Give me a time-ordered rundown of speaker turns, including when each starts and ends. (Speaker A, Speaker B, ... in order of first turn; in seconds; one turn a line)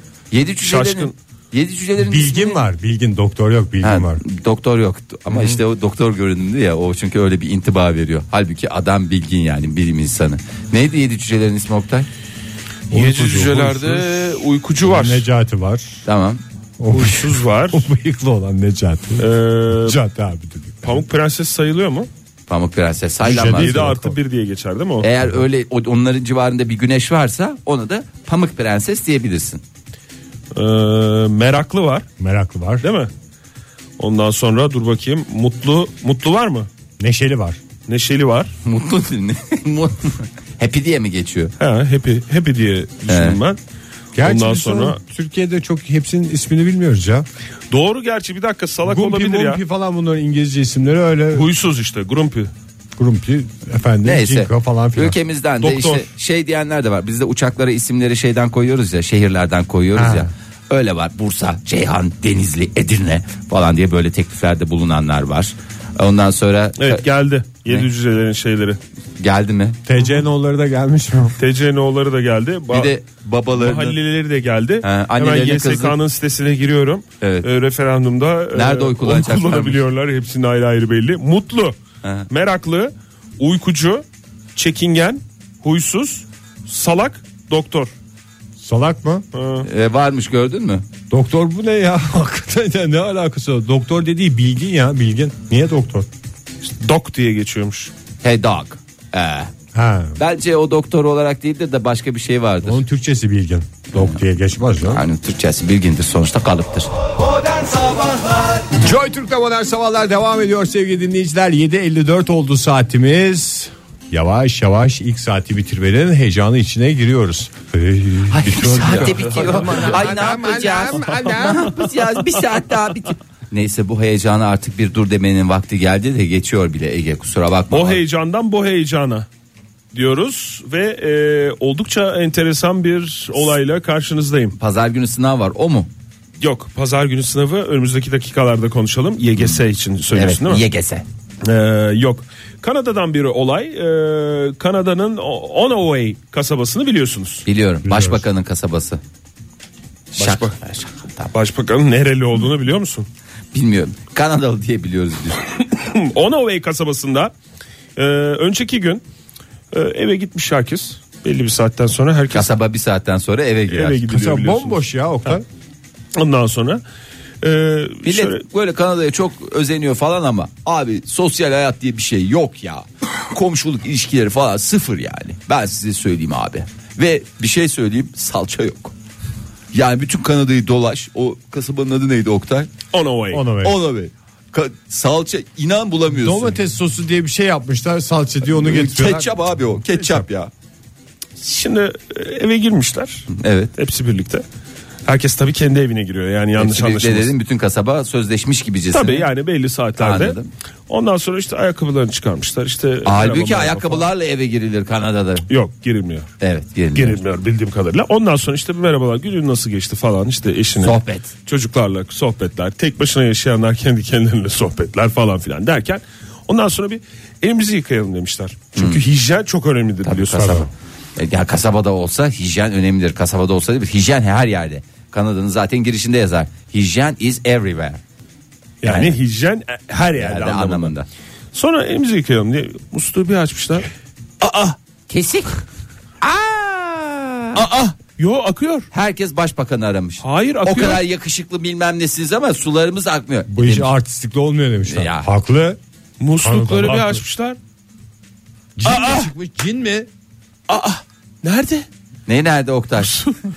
Speaker A: 0.3-2.6
Speaker B: 0.6-1.1
Speaker C: 2.0-4.2
Speaker A: 3.8-12.1
Speaker B: 12.9-15.2
Speaker C: 12.9-14.2
Speaker C: 14.8-16.0
Speaker A: 16.0-16.4
Speaker C: 16.8-21.0
Speaker B: 16.9-17.9
Speaker B: 19.2-20.0
Speaker B: 20.8-22.1
Speaker A: 22.5-23.9
Speaker C: 23.2-24.1
Speaker B: 23.3-25.1
Speaker A: 25.0-29.6
Speaker B: 30.5-32.0
Speaker C: 32.2-32.9
Speaker B: 32.8-33.1
Speaker B: 34.0-36.7
Speaker C: 37.0-37.6
Speaker B: 37.9-38.5
Speaker A: 38.6-41.5
Speaker B: 41.6-43.6
Speaker A: 43.1-43.4
Speaker C: 44.1-47.2
Speaker B: 44.2-45.0
Speaker B: 47.7-49.6
Speaker C: 48.8-51.5
Speaker B: 51.3-52.5
Speaker C: 53.0-55.2
Speaker A: 54.0-67.0
Speaker B: 55.6-56.0
Speaker C: 60.0-60.3
Speaker B: 66.8-68.8
Speaker A: 69.2-69.8
Speaker C: 69.8-71.4
Speaker B: 71.4-72.9
Speaker A: 72.7-74.0
Speaker B: 73.5-81.8
Speaker A: 74.8-76.0
Speaker A: 77.2-77.5
Speaker A: 78.5-79.8
Speaker A: 82.0-82.3
Speaker B: 82.3-84.0
Speaker B: 84.5-87.9
Speaker C: 88.6-89.2
Speaker B: 89.3-89.7
Speaker A: 89.6-90.8
Speaker C: 91.1-96.1
Speaker B: 96.6-97.9
Speaker A: 98.2-99.5
Speaker C: 99.7-100.2
Speaker A: 100.2-102.8
Speaker C: 102.6-105.0
Speaker A: 103.9-104.2
Speaker A: 104.8-106.9
Speaker A: 107.5-108.2
Speaker C: 108.7-121.8
Speaker A: 118.3-128.0
Speaker B: 118.9-119.9
Speaker B: 120.9-122.4
Speaker B: 127.7-129.2
Speaker B: 129.9-134.5
Speaker A: 134.6-135.9
Speaker B: 136.4-140.6
Speaker A: 140.1-141.0
Speaker B: 141.4-147.4
Speaker A: 147.4-149.0
Speaker C: 147.8-148.2
Speaker A: 150.2-151.3
Speaker B: 150.2-150.6
Speaker B: 151.3-153.1
Speaker A: 153.5-155.4
Speaker B: 155.7-157.3
Speaker B: 157.9-159.0
Speaker B: 159.7-162.5
Speaker A: 162.3-164.0
Speaker B: 163.7-164.8
Speaker C: 164.1-165.4
Speaker B: 166.1-166.8
Speaker B: 167.4-168.4
Speaker A: 168.0-178.9
Speaker A: 179.7-182.7
Speaker B: 182.9-183.5
Speaker C: 183.3-183.8
Speaker A: 183.6-186.6
Speaker C: 186.1-190.2
Speaker A: 188.4-190.5
Speaker B: 191.4-194.4
Speaker A: 193.3-193.7
Speaker B: 195.1-197.3
Speaker A: 196.6-199.3
Speaker B: 198.9-200.4
Speaker A: 200.0-200.5
Speaker B: 200.9-204.1
Speaker A: 203.0-205.4
Speaker B: 205.5-206.3
Speaker A: 206.4-207.2
Speaker B: 206.9-220.6
Speaker A: 210.8-211.3
Speaker A: 218.8-219.0
Speaker A: 220.0-228.0
Speaker C: 220.4-220.7
Speaker B: 228.8-230.9
Speaker A: 228.8-229.1
Speaker A: 230.2-231.1
Speaker B: 231.5-233.9
Speaker B: 234.4-234.8
Speaker A: 235.1-235.6
Speaker A: 236.2-237.6
Speaker B: 237.5-238.9
Speaker A: 238.9-243.9
Speaker B: 240.2-241.0
Speaker C: 243.5-245.8
Speaker A: 244.8-245.3
Speaker B: 246.2-247.6
Speaker C: 246.4-247.2
Speaker C: 248.8-250.1
Speaker B: 248.8-249.3
Speaker B: 250.7-251.9
Speaker A: 252.3-253.2
Speaker B: 253.0-253.3